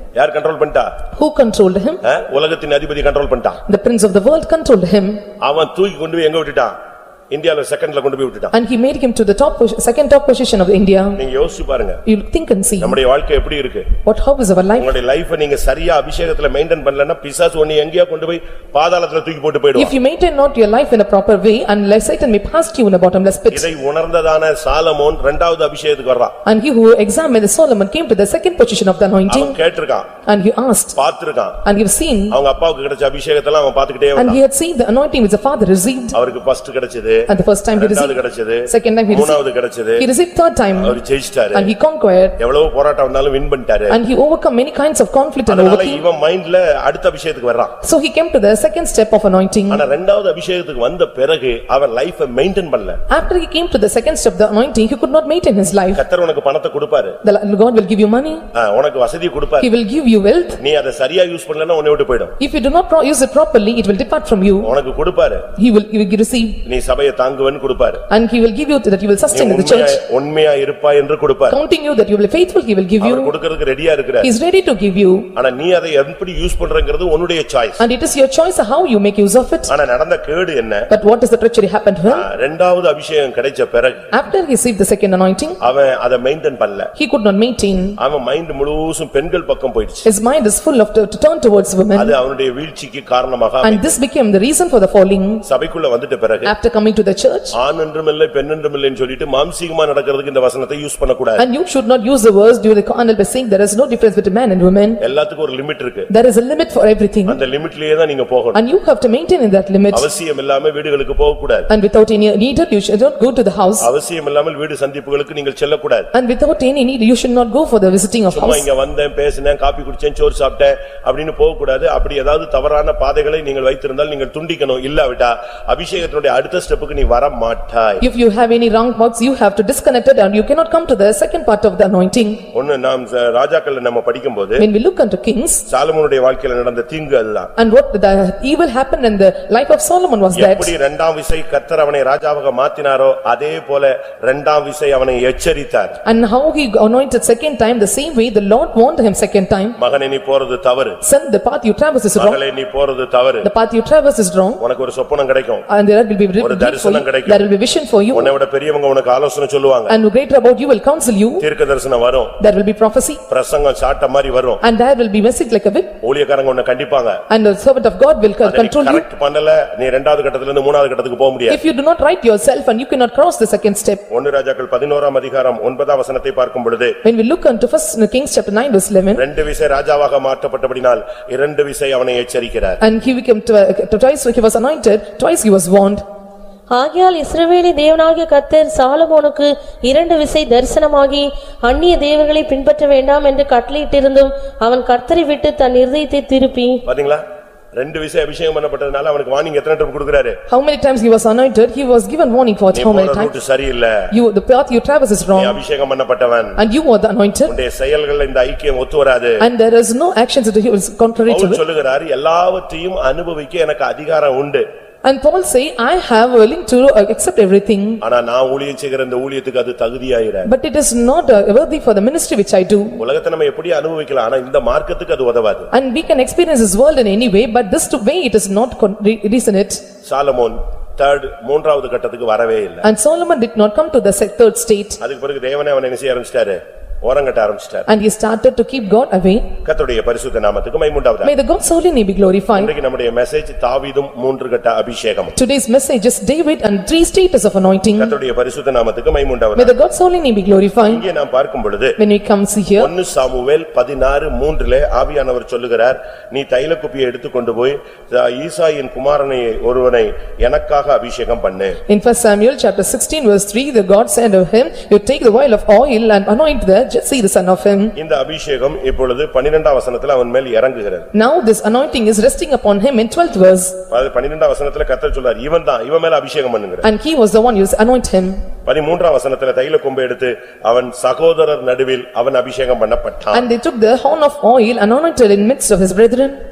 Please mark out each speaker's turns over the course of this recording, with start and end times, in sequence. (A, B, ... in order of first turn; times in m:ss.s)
0:00.1-0:00.9 A
0:01.1-0:02.0 B
0:02.0-0:03.6 A
0:03.7-0:05.2 B
0:05.4-0:06.7 A
0:07.3-0:08.5 A
0:08.5-0:11.2 B
0:11.2-0:12.0 A
0:12.0-0:13.0 B
0:12.8-0:13.9 A
0:14.0-0:14.9 B
0:14.8-0:19.9 A
0:19.7-0:23.7 B
0:23.5-0:26.3 A
0:26.4-0:29.6 B
0:29.3-0:30.1 A
0:30.2-0:31.0 B
0:31.0-0:31.6 A
0:31.6-0:32.4 B
0:32.3-0:34.4 A
0:34.2-0:36.2 B
0:36.1-0:40.1 A
0:37.3-0:39.4 B
0:40.0-0:41.0 B
0:40.8-0:41.7 A
0:41.5-0:42.3 B
0:42.4-0:44.0 A
0:43.9-0:46.0 B
0:45.5-0:47.7 A
0:47.8-0:49.8 B
0:49.7-0:53.0 A
0:53.1-0:56.0 B
0:55.9-0:57.2 A
0:57.2-0:58.4 B
0:58.5-0:59.7 A
0:59.6-1:00.6 B
1:00.6-1:02.3 A
1:02.4-1:04.7 B
1:04.6-1:05.5 A
1:05.6-1:06.6 B
1:06.6-1:08.0 A
1:08.1-1:10.0 B
1:09.3-1:11.6 A
1:11.5-1:13.3 B
1:13.0-1:14.3 A
1:14.2-1:15.3 B
1:15.3-1:17.8 A
1:17.8-1:19.7 B
1:19.7-1:20.9 A
1:20.9-1:22.2 B
1:22.0-1:24.1 A
1:24.1-1:25.6 B
1:25.6-1:26.9 A
1:26.9-1:28.0 B
1:28.0-1:30.1 A
1:30.0-1:32.2 B
1:31.9-1:34.0 A
1:33.6-1:35.4 B
1:35.4-1:36.5 A
1:36.4-1:37.5 B
1:37.5-1:41.4 A
1:41.4-1:45.0 B
1:45.0-1:46.1 A
1:46.1-1:47.4 B
1:47.3-1:48.6 A
1:48.5-1:50.1 B
1:49.9-1:51.7 A
1:51.7-1:53.9 B
1:53.8-1:56.1 A
1:56.1-1:58.6 B
1:58.3-2:08.0 A
2:08.0-2:12.4 B
2:12.5-2:14.6 A
2:14.6-2:15.6 B
2:15.7-2:17.5 A
2:17.6-2:20.7 B
2:20.3-2:26.0 A
2:26.0-2:29.8 B
2:29.8-2:31.0 A
2:31.0-2:32.4 B
2:32.2-2:33.5 A
2:33.4-2:34.6 B
2:34.6-2:35.6 A
2:35.7-2:38.3 B
2:36.4-2:37.4 A
2:38.1-2:39.9 A
2:39.9-2:41.4 B
2:41.4-2:42.4 A
2:42.4-2:43.2 B
2:43.3-2:44.6 A
2:44.6-2:45.9 B
2:46.0-2:47.2 A
2:47.3-2:49.0 B
2:48.4-2:51.6 A
2:51.5-2:54.0 B
2:54.1-2:57.0 A
2:57.0-2:59.2 B
2:59.1-3:02.8 A
3:02.8-3:06.0 B
3:06.7-3:16.8 C
3:16.8-3:17.2 A
3:17.8-3:20.4 A
3:20.5-3:23.3 B
3:22.7-3:24.1 A
3:24.1-3:25.6 B
3:25.3-3:26.6 A
3:26.6-3:27.5 B
3:27.5-3:29.4 A
3:29.4-3:31.6 B
3:31.3-3:34.6 A
3:35.0-3:38.0 B
3:38.0-3:40.5 A
3:40.4-3:43.0 B
3:43.0-3:45.7 A
3:45.7-3:49.8 B
3:50.0-3:52.8 A
3:52.8-3:55.0 B
3:55.0-3:57.9 A
3:57.9-3:59.5 B
3:59.6-4:01.3 A
4:01.2-4:02.7 B
4:02.6-4:05.3 A
4:05.3-4:08.2 B
4:08.0-4:09.7 A
4:09.6-4:11.0 B
4:10.8-4:12.0 A
4:12.0-4:12.9 B
4:12.8-4:21.8 A
4:21.9-4:27.9 B
4:28.0-4:31.1 A
4:31.1-4:33.8 B
4:33.9-4:36.8 A
4:36.8-4:38.4 B
4:38.6-4:43.4 A
4:43.3-4:46.4 B